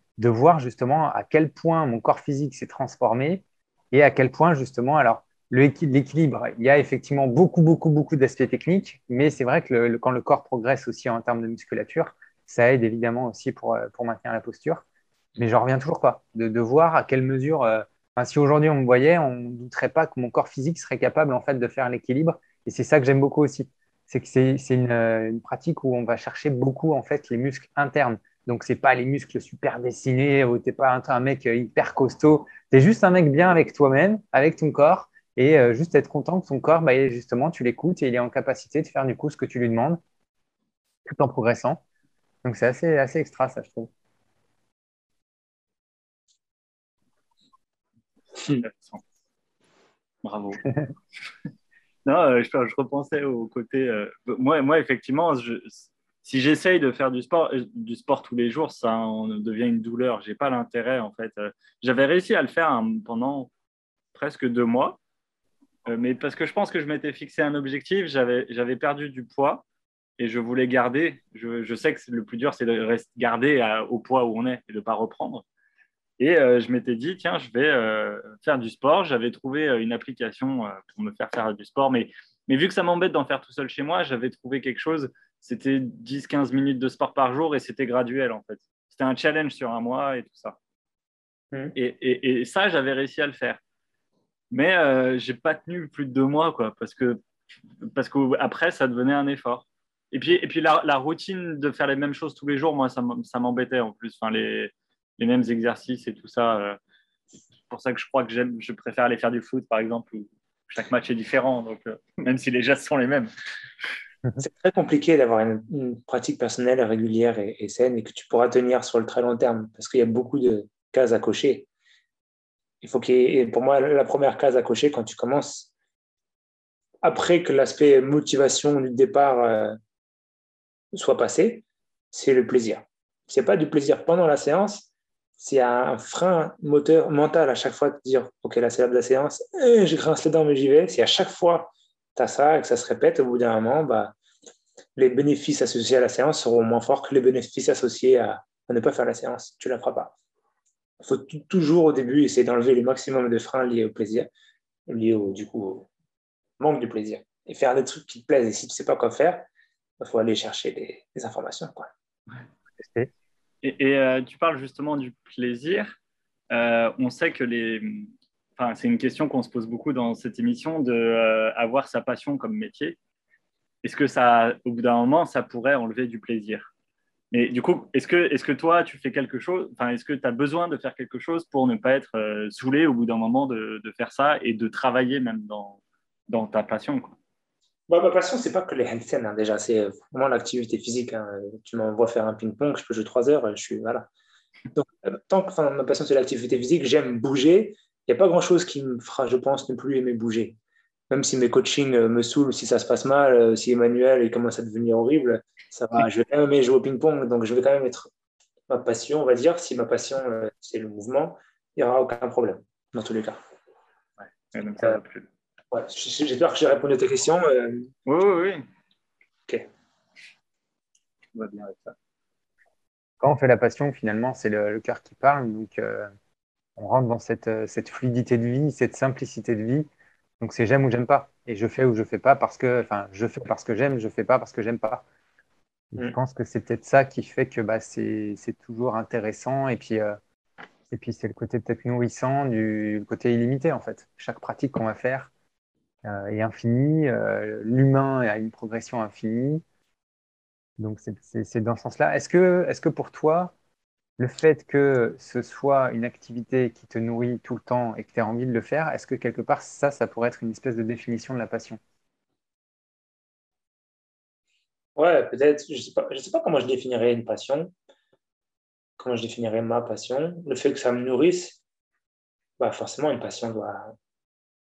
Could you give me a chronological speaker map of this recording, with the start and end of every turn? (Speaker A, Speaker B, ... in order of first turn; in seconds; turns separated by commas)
Speaker A: 0.2-14.8, Speaker A: 15.4-40.0, Speaker A: 41.1-41.8, Speaker A: 42.4-43.9, Speaker B: 48.5-49.0, Speaker B: 50.2-50.7, Speaker B: 52.1-63.5, Speaker B: 64.1-65.0, Speaker B: 65.9-69.7, Speaker B: 70.2-75.5, Speaker B: 76.2-90.6, Speaker B: 91.8-93.6, Speaker B: 94.5-97.2, Speaker B: 97.8-106.8, Speaker B: 107.7-113.3, Speaker C: 114.4-121.7, Speaker C: 122.8-125.7, Speaker C: 127.0-129.8, Speaker C: 130.9-134.9, Speaker C: 135.4-144.2, Speaker C: 145.0-150.1, Speaker C: 151.0-154.3, Speaker C: 154.9-155.9, Speaker C: 156.6-159.5, Speaker C: 160.0-161.9, Speaker A: 162.8-163.1, Speaker B: 163.6-166.0, Speaker B: 166.5-173.0, Speaker B: 173.8-176.7, Speaker B: 177.3-187.2, Speaker C: 187.9-194.1, Speaker C: 194.7-200.6, Speaker C: 201.1-208.1, Speaker C: 208.7-213.4, Speaker B: 214.2-215.3, Speaker C: 215.7-217.9, Speaker B: 218.1-218.7, Speaker B: 221.3-221.9, Speaker A: 223.2-226.1, Speaker A: 226.8-229.9, Speaker A: 230.4-235.0, Speaker A: 235.9-240.2, Speaker A: 240.9-245.3, Speaker A: 246.1-249.6, Speaker A: 250.8-253.5, Speaker A: 254.2-261.8, Speaker C: 265.0-267.7, Speaker C: 269.0-271.6, Speaker C: 272.6-273.9